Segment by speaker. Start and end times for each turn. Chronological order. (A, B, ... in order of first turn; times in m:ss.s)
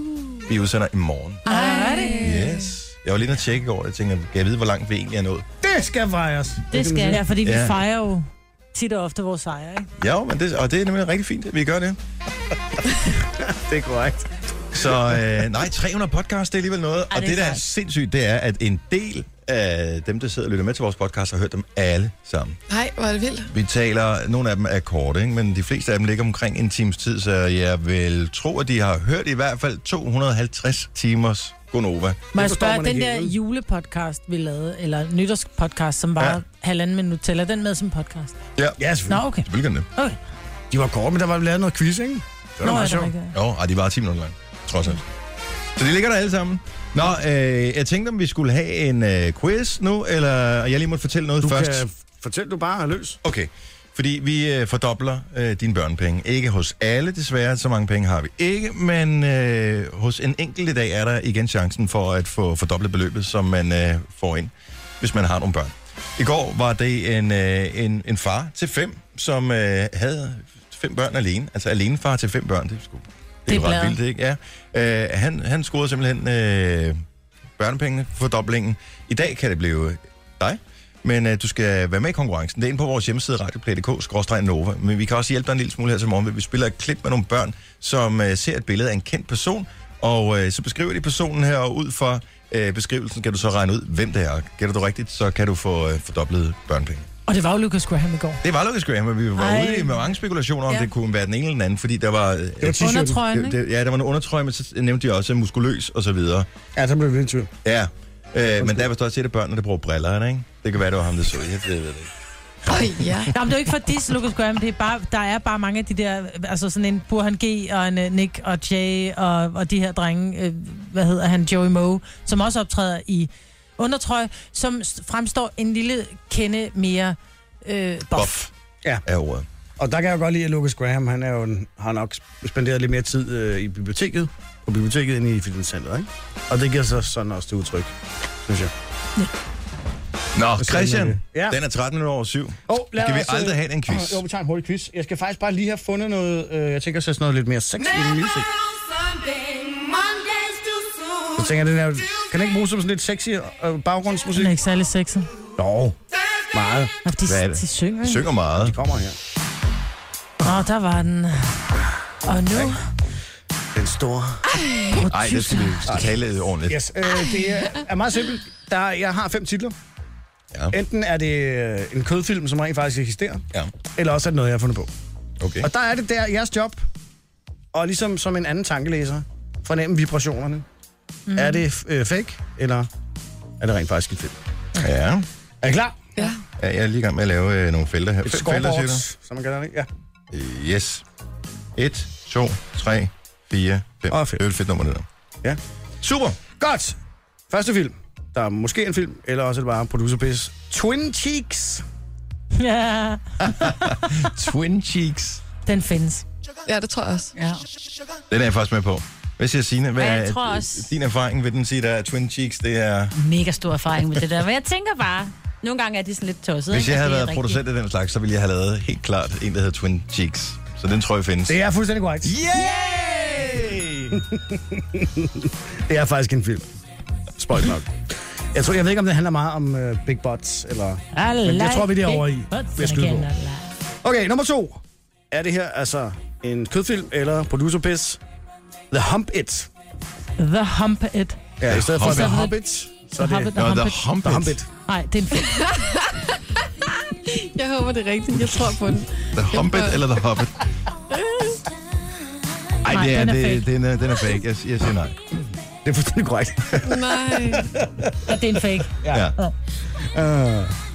0:00.5-0:01.4 A
0:01.5-0:02.4 B
0:01.5-0:02.4 C
0:01.5-0:02.5 D
0:02.2-0:05.4 A
0:05.6-0:07.3 E
0:06.7-0:07.3 C
0:07.1-0:09.9 B
0:07.4-0:07.8 A
0:10.0-0:12.0 A
0:13.4-0:15.2 E
0:14.7-0:22.6 A
0:17.1-0:17.6 C
0:22.7-0:23.5 D
0:23.5-0:32.2 A
0:32.3-0:33.4 E
0:32.3-0:38.4 B
0:38.6-0:38.8 A
0:38.8-0:39.2 E
0:39.1-0:40.2 B
0:39.4-0:39.9 A
0:40.7-0:43.1 E
0:42.6-0:43.4 B
0:43.3-0:45.0 A
0:45.8-0:51.8 A
0:51.4-0:53.2 E
0:53.2-1:17.0 A
1:13.5-1:14.0 B
1:17.6-1:37.1 A
1:37.3-1:38.4 B
1:38.4-1:46.5 A
1:39.4-1:40.1 B
1:42.6-1:43.1 E
1:42.8-1:43.6 B
1:46.8-1:47.5 E
1:47.6-1:52.1 A
1:48.6-1:48.9 E
1:52.6-1:53.3 D
1:53.3-2:08.4 B
2:08.1-2:08.5 A
2:09.0-2:09.4 A
2:09.8-2:18.7 E
2:20.4-2:24.2 A
2:20.6-2:21.6 E
2:22.7-2:28.5 E
2:31.4-2:34.6 E
2:34.3-2:35.3 B
2:35.6-2:36.0 E
2:36.5-2:36.9 E
2:37.0-2:38.3 B
2:37.3-2:38.8 A
2:38.6-2:39.2 E
2:40.4-2:41.6 B
2:42.2-2:42.8 B
2:43.8-2:44.4 E
2:44.9-2:46.1 B
2:45.0-2:46.8 A
2:46.7-2:49.8 E
2:50.7-2:54.9 E
2:55.4-2:55.7 A
2:55.6-2:56.8 E
2:57.7-3:00.7 E
3:01.3-3:01.6 B
3:01.4-3:02.9 E
3:03.6-3:04.4 E
3:04.8-3:05.3 A
3:05.6-3:06.0 E
3:06.6-3:09.0 A
3:08.2-3:09.9 E
3:10.3-3:11.0 A
3:11.8-3:15.0 A
3:14.1-3:14.4 E
3:16.0-3:16.4 A
3:16.6-3:17.0 E
3:17.5-3:21.8 E
3:22.6-3:24.2 B
3:23.4-3:25.4 A
3:25.7-3:26.2 B
3:26.7-3:27.3 D
3:28.3-3:33.2 A
3:30.0-3:30.9 C
3:33.2-3:37.6 C
3:36.7-3:41.6 A
3:41.5-3:42.4 E
3:42.2-3:44.2 A
3:44.2-3:46.7 E
3:47.4-3:48.0 E
3:48.5-3:53.3 E
3:51.1-3:53.7 B
3:54.0-3:58.2 E
3:58.9-3:59.7 E
4:00.4-4:01.4 B
4:01.6-4:03.5 E
4:01.7-4:02.4 A
4:02.0-4:02.6 B
4:03.2-4:04.1 B
4:03.6-4:04.6 A
4:04.2-4:04.7 E
4:04.9-4:05.6 B
4:05.4-4:06.2 D
4:07.3-4:10.1 D
4:09.3-4:10.6 A
4:11.1-4:11.6 D
4:12.8-4:15.2 A
4:12.9-4:13.7 B
4:15.8-4:18.4 E
4:16.8-4:17.7 D
4:18.3-4:19.5 B
4:19.0-4:19.3 E
4:19.1-4:19.4 A
4:20.0-4:20.8 E